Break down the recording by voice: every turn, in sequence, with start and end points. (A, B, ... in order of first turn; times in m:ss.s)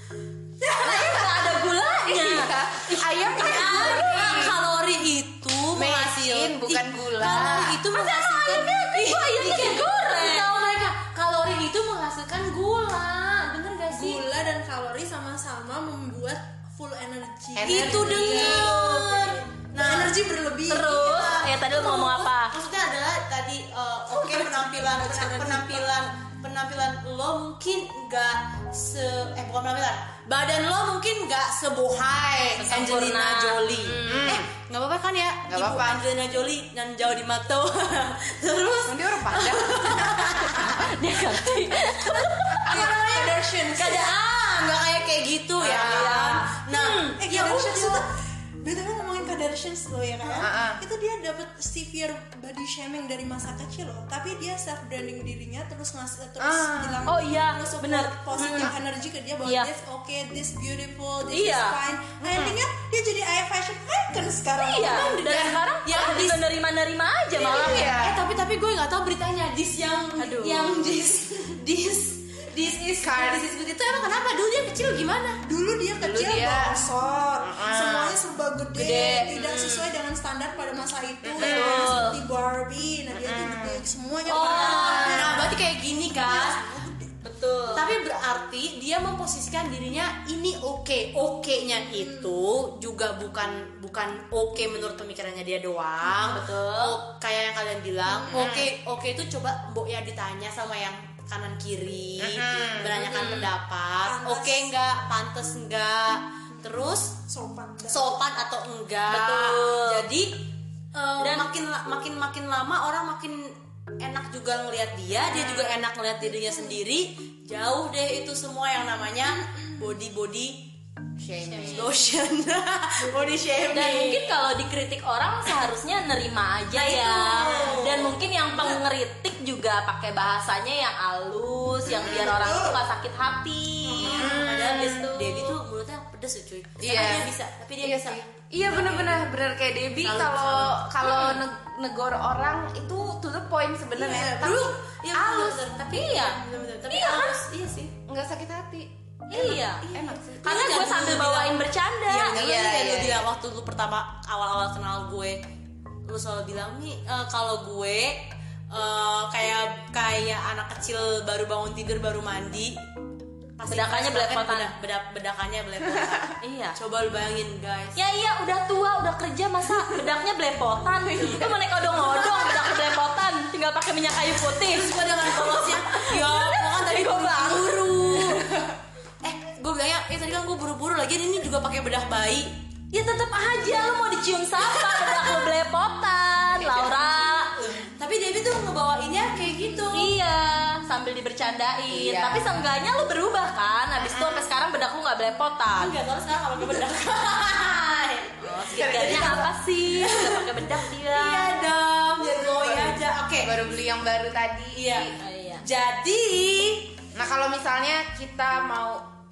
0:00.6-0:01.4 A
0:00.7-0:04.5 B
0:00.9-0:01.6 C
0:02.0-0:04.6 A
0:03.3-0:14.2 C
0:05.7-0:07.8 A
0:07.9-0:10.6 B
0:13.9-0:21.2 D
0:17.6-0:18.7 A
0:17.6-0:20.2 C
0:18.3-0:19.2 B
0:20.7-0:22.5 B
0:21.0-0:40.9 C
0:24.1-0:25.9 D
0:32.6-0:34.4 B
0:34.0-0:34.5 A
0:35.5-0:36.0 A
0:38.9-0:40.0 A
0:40.1-0:42.9 B
0:42.6-0:48.0 C
0:42.7-0:44.1 D
0:45.6-0:46.2 A
0:45.6-0:47.2 B
0:47.2-0:48.0 D
0:48.6-1:05.4 D
0:50.4-0:50.8 A
0:56.4-0:57.0 A
0:57.1-0:58.8 B
0:59.4-0:59.7 B
1:01.3-1:01.8 B
1:02.2-1:02.6 A
1:04.6-1:07.9 B
1:04.8-1:06.4 C
1:07.3-1:15.4 C
1:07.4-1:08.2 A
1:10.2-1:11.0 B
1:13.0-1:13.4 A
1:15.4-1:25.6 D
1:16.0-1:18.2 A
1:18.8-1:19.3 A
1:19.0-1:19.9 B
1:21.2-1:21.9 A
1:21.4-1:22.2 B
1:23.1-1:23.8 A
1:24.3-1:25.3 B
1:24.3-1:26.6 C
1:26.2-1:27.1 D
1:27.2-1:27.9 B
1:27.7-1:47.2 C
1:36.2-1:37.0 B
1:38.1-1:38.5 D
1:38.3-1:38.7 A
1:42.2-1:43.0 A
1:43.0-1:43.5 B
1:44.0-1:44.7 D
1:47.2-1:48.2 D
1:47.9-2:00.6 C
1:49.1-1:50.1 B
1:51.2-1:51.5 B
1:56.3-1:56.7 D
2:01.2-2:01.9 A
2:01.5-2:01.9 B
2:01.6-2:04.4 C
2:03.7-2:15.6 B
2:06.7-2:08.8 C
2:07.6-2:07.8 D
2:11.9-2:12.4 A
2:12.4-2:12.7 C
2:12.4-2:12.8 D
2:13.9-2:19.2 C
2:14.0-2:14.7 A
2:16.8-2:17.3 A
2:17.8-2:25.6 A
2:20.0-2:20.8 C
2:21.0-2:21.4 B
2:24.0-2:27.9 C
2:25.9-2:27.4 B
2:28.1-2:30.9 A
2:29.3-2:29.9 B
2:30.4-2:32.4 B
2:30.4-2:35.4 C
2:32.3-2:33.3 A
2:36.1-2:42.8 C
2:43.6-2:48.0 C
2:43.7-2:44.7 B
2:46.4-2:46.8 B
2:48.0-2:58.4 B
2:51.2-2:51.5 A
2:54.6-2:58.5 C
2:59.2-3:02.5 C
3:02.9-3:07.6 B
3:04.7-3:05.4 C
3:06.6-3:06.9 C
3:07.6-3:10.2 C
3:09.9-3:15.9 B
3:11.9-3:12.5 A
3:14.0-3:14.4 A
3:15.8-3:23.6 C
3:18.4-3:21.5 B
3:18.7-3:19.5 A
3:22.4-3:25.2 A
3:24.7-3:26.9 C
3:25.2-3:25.6 B
3:27.1-3:29.1 A